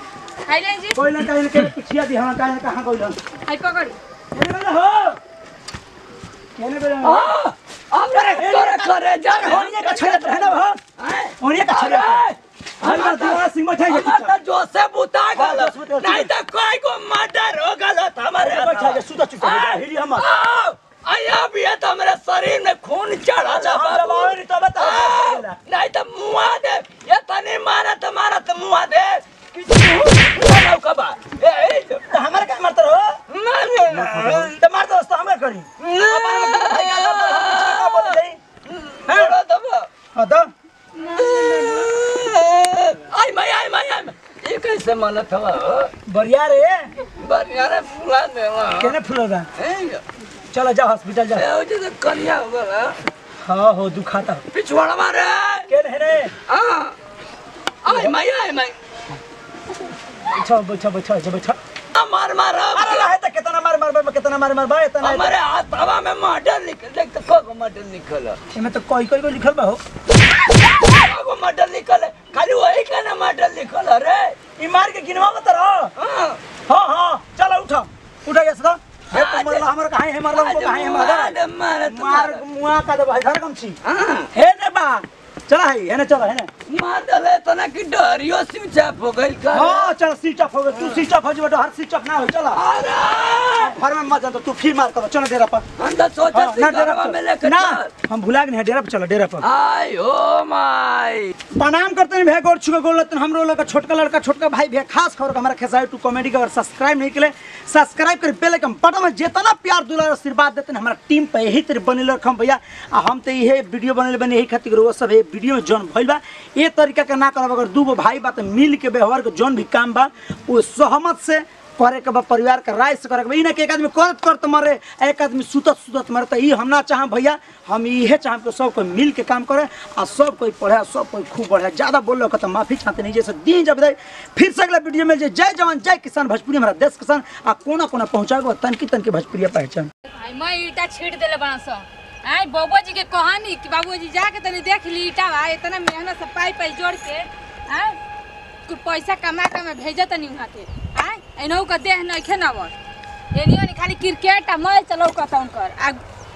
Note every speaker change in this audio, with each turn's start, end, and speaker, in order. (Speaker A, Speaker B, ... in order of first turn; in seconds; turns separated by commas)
Speaker A: 0.5-1.0, Speaker B: 0.9-3.2, Speaker A: 3.5-4.0, Speaker B: 4.3-5.2, Speaker B: 6.6-7.3, Speaker C: 7.0-32.0, Speaker B: 8.1-10.8, Speaker B: 11.4-12.2, Speaker B: 12.8-14.3, Speaker B: 15.3-16.3, Speaker B: 18.4-20.3, Speaker B: 23.4-25.6, Speaker B: 32.1-33.2, Speaker C: 33.3-34.5, Speaker B: 33.9-38.4, Speaker C: 35.8-39.9, Speaker B: 39.0-39.3, Speaker B: 40.1-40.5, Speaker C: 41.0-45.9, Speaker B: 46.1-46.9, Speaker C: 47.1-49.0, Speaker B: 48.8-49.5, Speaker C: 49.6-50.0, Speaker B: 50.5-51.5, Speaker C: 51.3-53.0, Speaker B: 53.4-54.4, Speaker C: 54.5-55.7, Speaker B: 55.7-56.3, Speaker C: 56.5-56.9, Speaker C: 57.8-58.7, Speaker B: 57.9-58.1, Speaker B: 60.2-61.6, Speaker C: 61.9-63.1, Speaker B: 62.7-65.3, Speaker C: 65.0-68.4, Speaker B: 68.5-69.8, Speaker C: 70.6-74.3, Speaker B: 74.6-75.9, Speaker C: 76.0-76.4, Speaker B: 76.7-83.8, Speaker C: 79.1-79.6, Speaker C: 80.3-82.4, Speaker C: 83.8-84.3, Speaker B: 84.3-86.5, Speaker C: 86.7-89.9, Speaker B: 89.5-92.6, Speaker C: 92.5-93.8, Speaker B: 93.6-95.6, Speaker C: 95.8-97.9, Speaker B: 96.3-99.5, Speaker C: 99.4-101.3, Speaker B: 101.5-139.9, Speaker A: 140.1-148.0, Speaker A: 148.7-152.7, Speaker A: 153.3-156.0